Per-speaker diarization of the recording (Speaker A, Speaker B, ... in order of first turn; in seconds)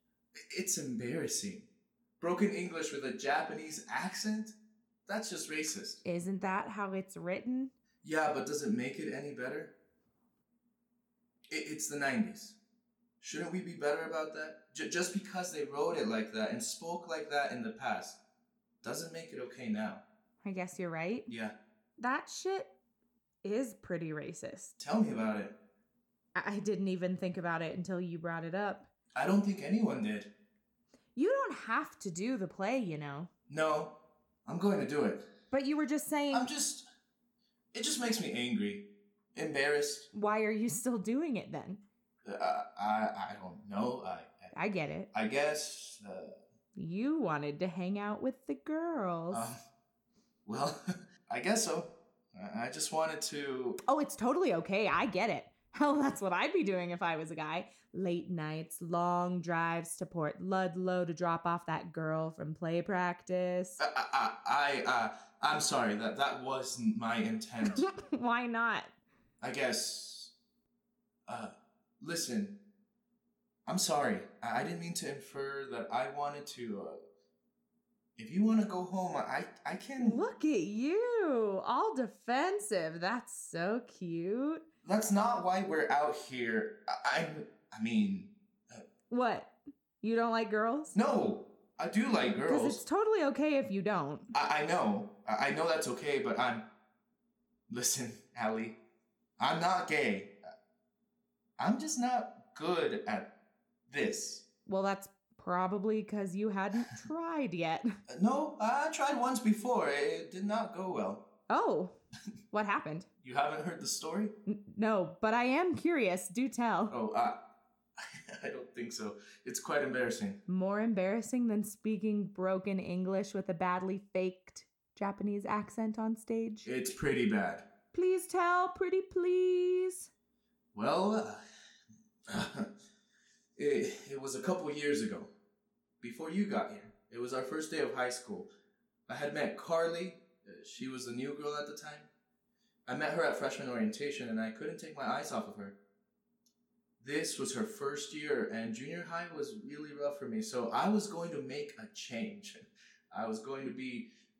Speaker A: 0.5-1.7, 2.2-4.5, 5.1-6.0, 8.0-9.7, 11.5-12.6, 13.2-18.2, 18.8-20.0, 21.3-21.5, 24.8-25.5, 29.1-30.3, 33.5-33.9, 34.5-35.3, 36.3-36.8, 37.7-40.1, 42.2-44.5, 45.1-46.4, 49.3-49.6, 50.5-53.8, 63.8-67.8, 69.4-70.3, 71.3-72.5, 73.7-77.0, 78.2-80.2, 84.8-88.8, 90.9-92.8, 94.3-96.7, 97.7-98.8, 99.4-100.3, 101.6-103.3, 103.9-104.4, 108.1-111.2, 113.2-114.3, 116.9-117.4, 118.0-120.4, 126.6-127.6, 130.7-131.4, 132.3-132.7, 133.6-135.3, 136.0-138.5, 139.1-142.1, 142.8-145.8, 147.0-152.6, 153.1-154.1
Speaker B: 6.0-7.7, 20.4-21.3, 22.0-22.7, 23.4-24.7, 26.3-28.9, 31.1-33.3, 35.5-36.5, 40.1-41.8, 44.5-45.1, 46.8-49.5, 53.8-63.8, 67.6-68.9, 80.0-84.7, 89.1-91.0, 92.4-94.3, 104.7-107.9, 111.5-111.9, 112.5-113.1, 114.5-116.9, 120.5-126.7, 127.9-130.1